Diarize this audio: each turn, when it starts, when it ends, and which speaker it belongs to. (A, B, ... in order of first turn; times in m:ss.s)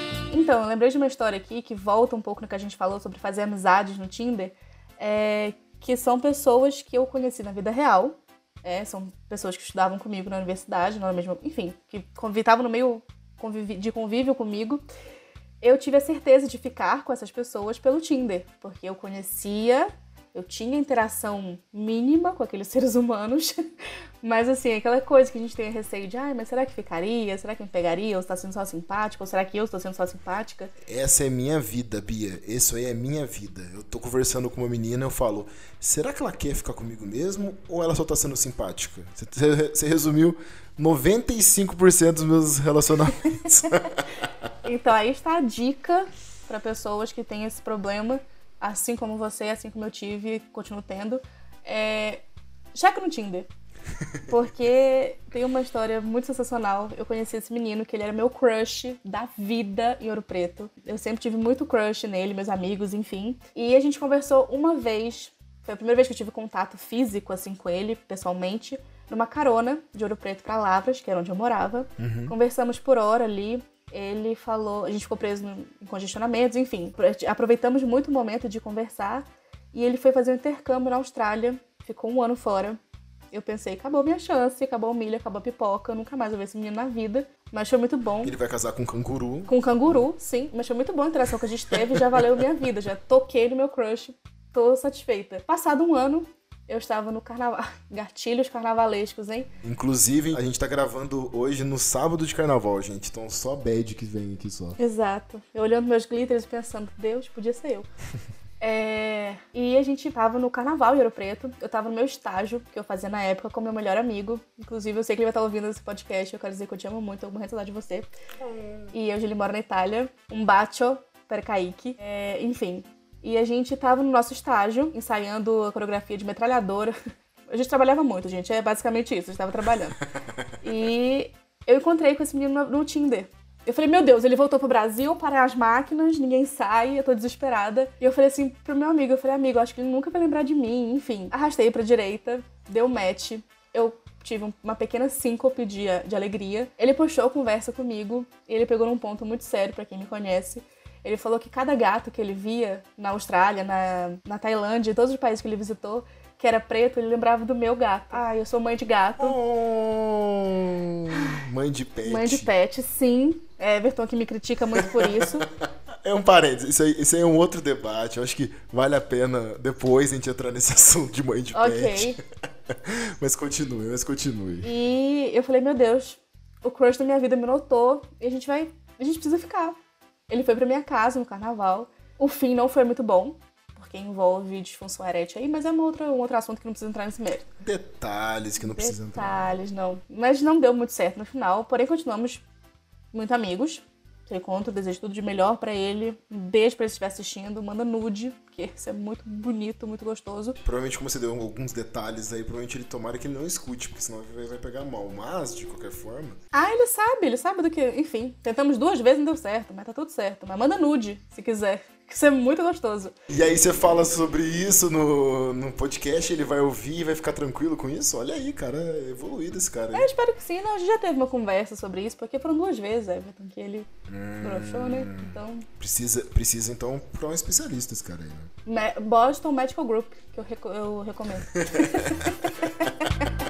0:00.3-0:14.8 A
0:15.6-0:23.6 A
0:24.2-0:30.7 A
0:30.8-0:44.3 B
0:44.6-0:53.5 A
0:54.3-1:22.8 A
1:12.0-1:12.3 B
1:23.3-1:28.3 A
1:28.2-1:30.0 B
1:29.5-1:39.5 A
1:31.7-1:32.4 B
1:39.6-1:44.8 B
1:44.8-1:47.9 A
1:48.6-1:58.1 A
1:58.4-1:58.9 B
1:58.9-2:07.0 A
2:07.5-2:10.0 A
2:10.6-2:39.4 A
2:39.2-2:42.5 B
2:42.0-2:45.4 A
2:44.7-2:54.7 B
2:51.5-2:52.2 A
2:54.6-2:59.8 A
3:00.3-3:07.5 A
3:07.6-3:09.6 B
3:08.6-3:12.4 A
3:13.1-3:20.6 A
3:20.6-3:26.4 B
3:26.5-3:33.1 A
3:33.3-3:40.1 B
3:39.9-3:43.9 A
3:44.1-3:48.5 B
3:44.4-3:45.7 A
3:48.6-3:53.3 A
3:51.5-3:52.3 B